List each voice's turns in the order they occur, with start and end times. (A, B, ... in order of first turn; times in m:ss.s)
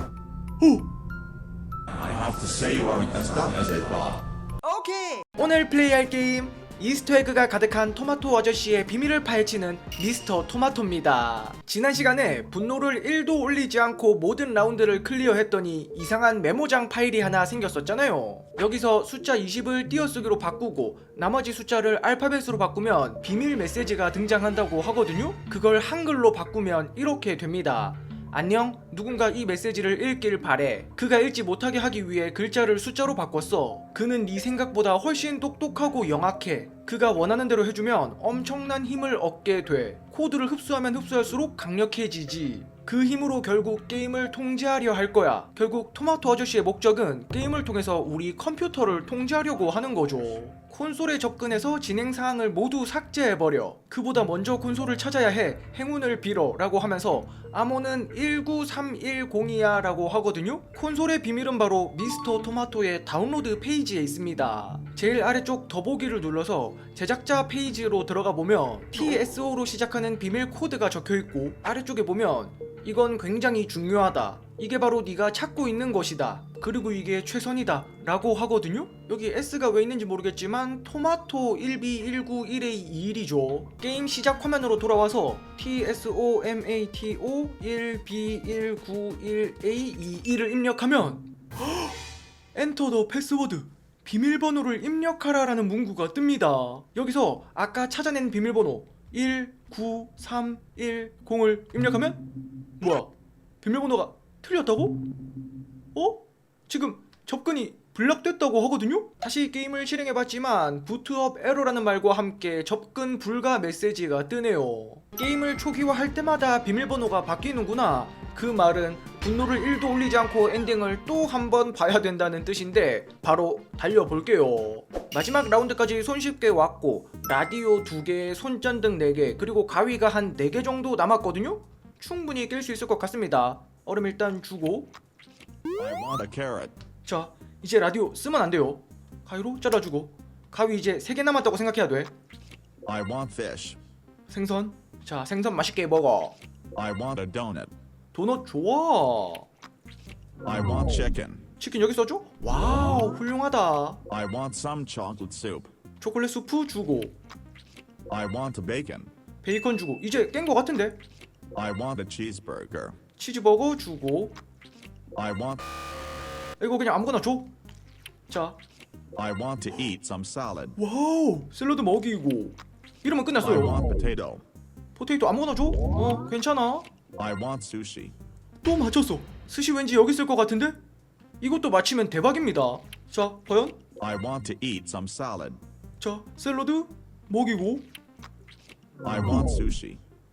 0:00.6-0:00.9 A
0:01.9-0:04.2 B
0:04.6-1:32.0 A
1:32.5-1:42.3 A
1:42.8-1:45.0 A
1:46.0-2:14.9 A
2:15.8-2:16.7 B
2:17.0-2:22.1 A
2:22.8-2:23.8 B
2:24.3-2:26.4 A
2:26.7-2:27.7 B
2:28.1-2:29.5 A
2:30.4-2:31.5 B
2:31.6-2:34.0 A
2:34.1-2:35.7 B
2:36.0-2:37.2 A
2:38.1-2:39.1 B
2:39.4-2:41.0 A
2:41.5-2:43.0 B
2:43.2-2:44.4 A
2:45.2-2:45.6 B
2:46.6-2:47.5 A
2:48.3-2:48.6 A
2:49.2-2:50.8 B
2:50.8-2:53.9 A
2:53.4-2:54.4 B
2:55.0-2:56.9 A
2:57.2-2:58.1 B
2:58.6-3:00.8 A
3:01.4-3:03.8 A
3:04.0-3:05.6 B
3:06.0-3:07.9 A
3:09.0-3:10.0 B